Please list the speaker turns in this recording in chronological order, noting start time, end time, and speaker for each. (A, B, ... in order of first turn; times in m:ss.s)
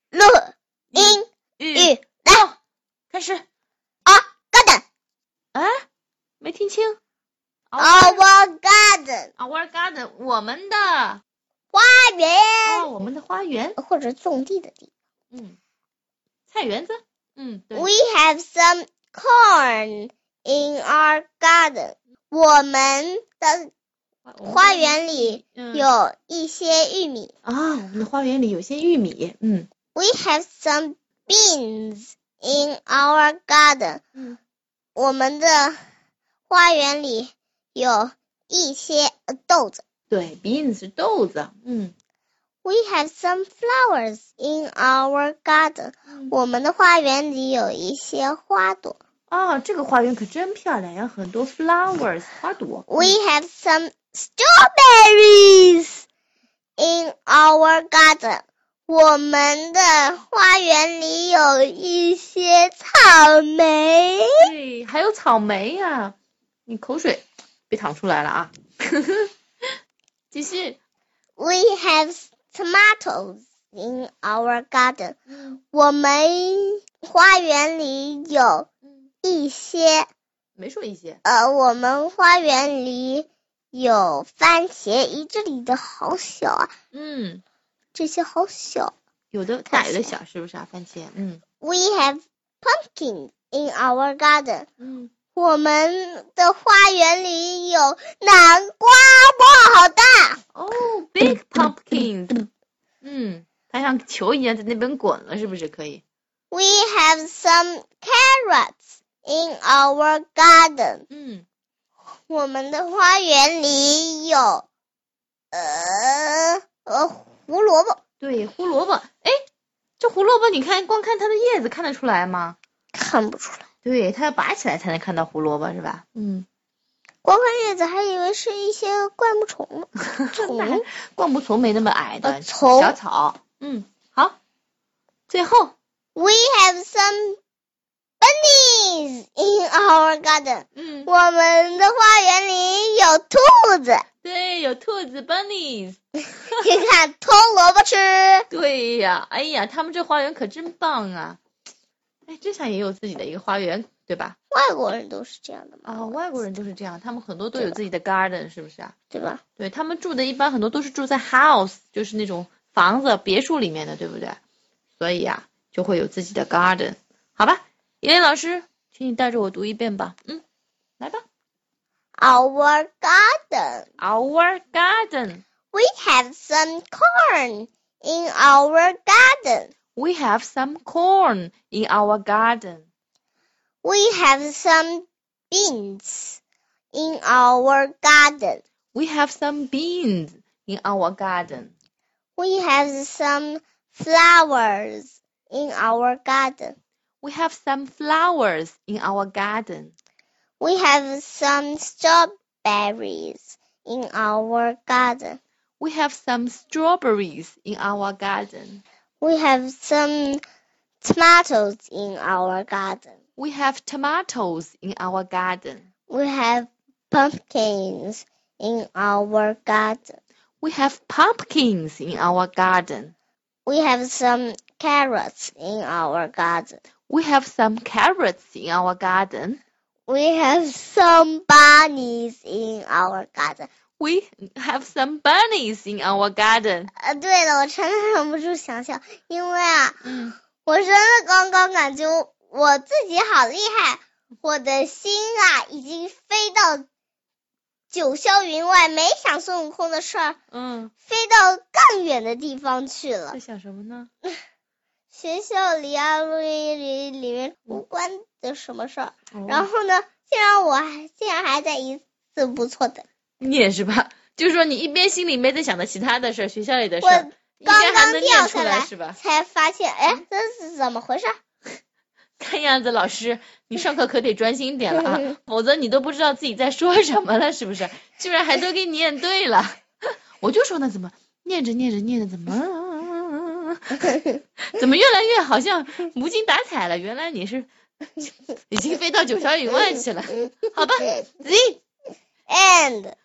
0:00.1-0:02.4 A
0:00.9-0:02.6 B
0:03.1-0:03.4 B
0:04.0-0:04.8 A
0:05.5-0:05.8 B
0:06.4-0:07.0 B
0:07.7-0:08.2 B
0:07.8-0:09.3 A
0:09.4-0:11.2 B
0:11.7-0:12.9 A
0:12.6-0:13.8 B
0:13.8-0:14.9 A
0:15.3-0:15.6 B
0:16.5-0:17.9 B
0:17.7-0:23.7 A
0:24.2-0:25.9 B
0:24.4-0:27.3 A
0:27.4-0:29.7 B
0:29.9-0:34.0 A
0:35.0-0:35.8 A
0:36.5-0:39.8 A
0:40.1-0:41.9 B
0:42.6-0:49.0 A
0:49.3-0:53.1 B
0:52.9-0:56.0 A
0:56.8-1:04.4 A
1:04.4-1:06.1 B
1:06.7-1:09.3 B
1:10.3-1:10.8 B
1:11.4-1:15.2 A
1:15.3-1:15.6 B
1:15.7-1:18.7 A
1:19.2-1:20.1 A
1:20.6-1:21.2 B
1:21.2-1:26.7 A
1:26.9-1:27.4 B
1:27.9-1:28.9 A
1:29.3-1:31.4 B
1:29.7-1:30.1 A
1:31.6-1:34.7 A
1:34.8-1:35.1 B
1:35.3-1:40.4 A
1:40.5-1:42.4 B
1:43.0-1:46.0 B
1:46.5-1:51.0 A
1:51.1-1:51.4 B
1:52.3-1:54.6 A
1:55.5-1:58.0 A
1:58.2-1:59.4 B
2:00.0-2:02.6 B
2:02.9-2:03.7 A
2:03.8-2:06.4 B
2:07.2-2:10.8 A
2:10.0-2:14.4 B
2:12.2-2:13.0 A
2:15.3-2:15.7 B
2:16.1-2:17.4 A
2:18.2-2:24.0 A
2:20.8-2:21.1 B
2:24.2-2:26.6 B
2:26.5-2:28.5 A
2:28.5-2:31.4 B
2:32.3-2:34.4 B
2:34.5-2:36.4 A
2:35.8-2:38.9 B
2:39.1-2:39.4 A
2:39.6-2:44.4 B
2:45.0-2:50.4 B
2:51.0-2:51.2 B
2:52.2-2:53.9 A
2:54.0-2:55.4 B
2:55.7-2:59.7 A
3:00.0-3:02.8 B
3:03.8-3:06.4 A
3:06.9-3:08.6 A
3:08.9-3:11.7 B
3:12.4-3:16.8 A
3:17.2-3:19.9 B
3:20.6-3:25.4 A
3:25.8-3:28.8 B
3:29.2-3:30.4 A
3:31.0-3:33.2 A
3:33.4-3:35.8 B
3:36.1-3:40.2 A
3:40.6-3:43.1 B
3:43.6-3:46.8 A
3:47.1-3:49.6 B
3:50.1-3:53.7 A
3:54.0-3:56.9 B
3:57.0-4:00.0 A
4:00.0-4:00.4 B
4:00.6-4:06.8 A
4:07.9-4:10.4 A
4:10.5-4:10.9 B
4:11.1-4:13.4 A
4:13.3-4:14.1 B
4:15.1-4:23.0 A
4:19.3-4:19.7 B
4:23.4-4:29.2 B
4:27.0-4:31.4 A
4:32.4-4:39.8 B
4:40.4-4:44.1 B
4:44.6-4:51.8 B
4:52.5-4:53.2 A